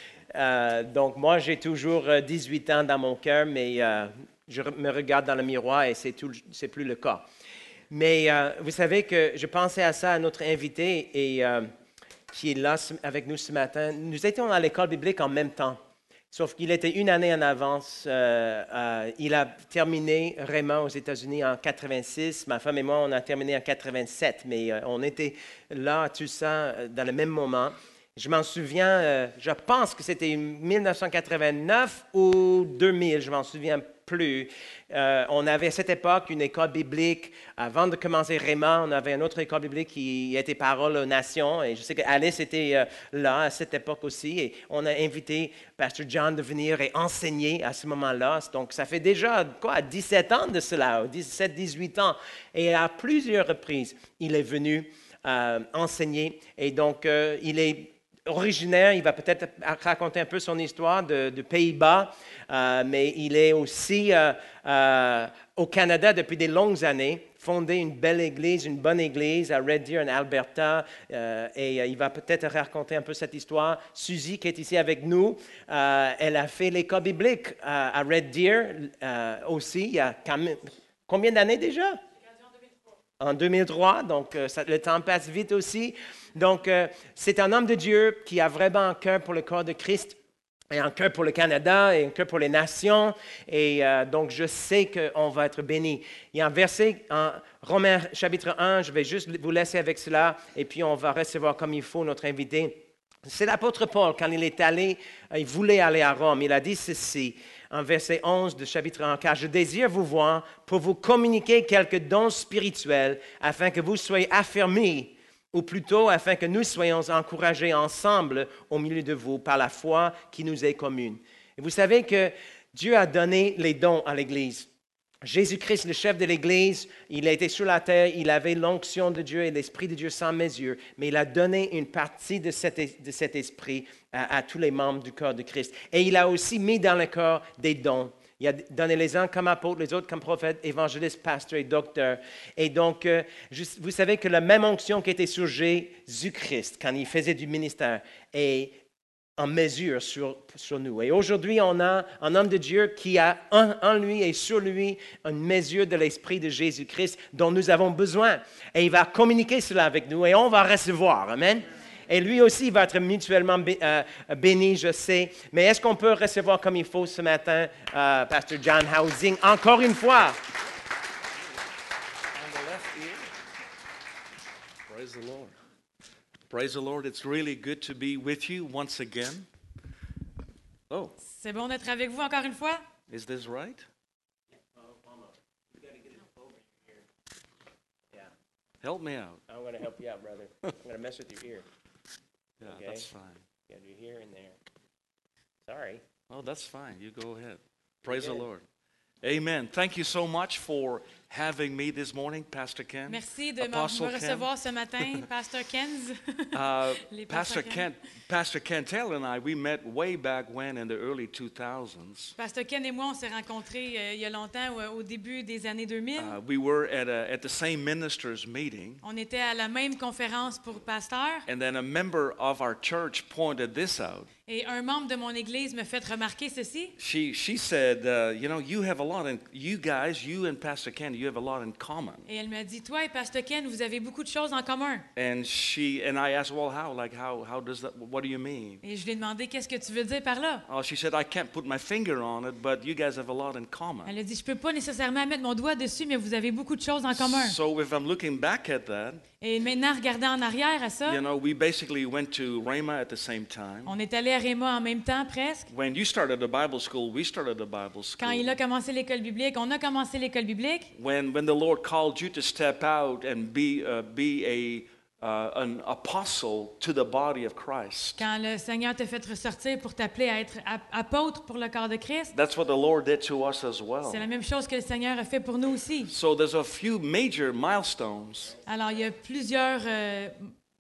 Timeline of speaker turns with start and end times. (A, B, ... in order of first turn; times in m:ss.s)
0:00.3-0:07.2 A
0:07.9-0:11.7 A
0:12.3-0:15.8 A
0:16.3-1:22.0 A
1:23.2-1:30.2 A
1:30.7-2:04.7 A
2:05.2-2:28.8 A
2:29.4-2:50.4 A
2:52.4-2:53.3 B
2:54.9-2:55.5 B
2:56.5-2:59.5 B
3:00.9-3:01.2 B
3:01.3-3:02.8 C
3:03.1-3:03.8 B
3:04.9-3:07.0 A
3:08.8-3:09.4 B
3:09.5-3:11.6 A
3:12.6-3:13.1 A
3:12.6-3:13.4 B
3:13.7-3:14.6 A
3:15.7-3:16.0 A
3:16.3-3:18.6 B
3:18.1-3:18.4 A
3:19.2-3:24.5 B
3:23.1-3:27.9 C
3:26.5-3:32.4 B
3:32.4-3:36.4 C
3:36.2-3:39.0 B
3:39.0-3:41.5 C
3:41.5-3:44.3 B
3:44.5-3:46.9 C
3:47.0-3:52.3 B
3:52.3-3:55.1 C
3:55.2-3:58.8 B
3:58.8-4:00.6 C
4:00.7-4:04.1 B
4:04.1-4:07.6 C
4:07.2-4:09.2 B
4:09.4-4:11.2 C
4:11.1-4:14.0 B
4:13.9-4:15.7 C
4:15.7-4:18.6 B
4:18.2-4:20.9 C
4:21.0-4:28.2 B
4:28.2-4:32.3 C
4:32.3-4:34.2 B
4:34.0-4:36.1 C
4:36.1-4:38.6 B
4:38.7-4:40.5 C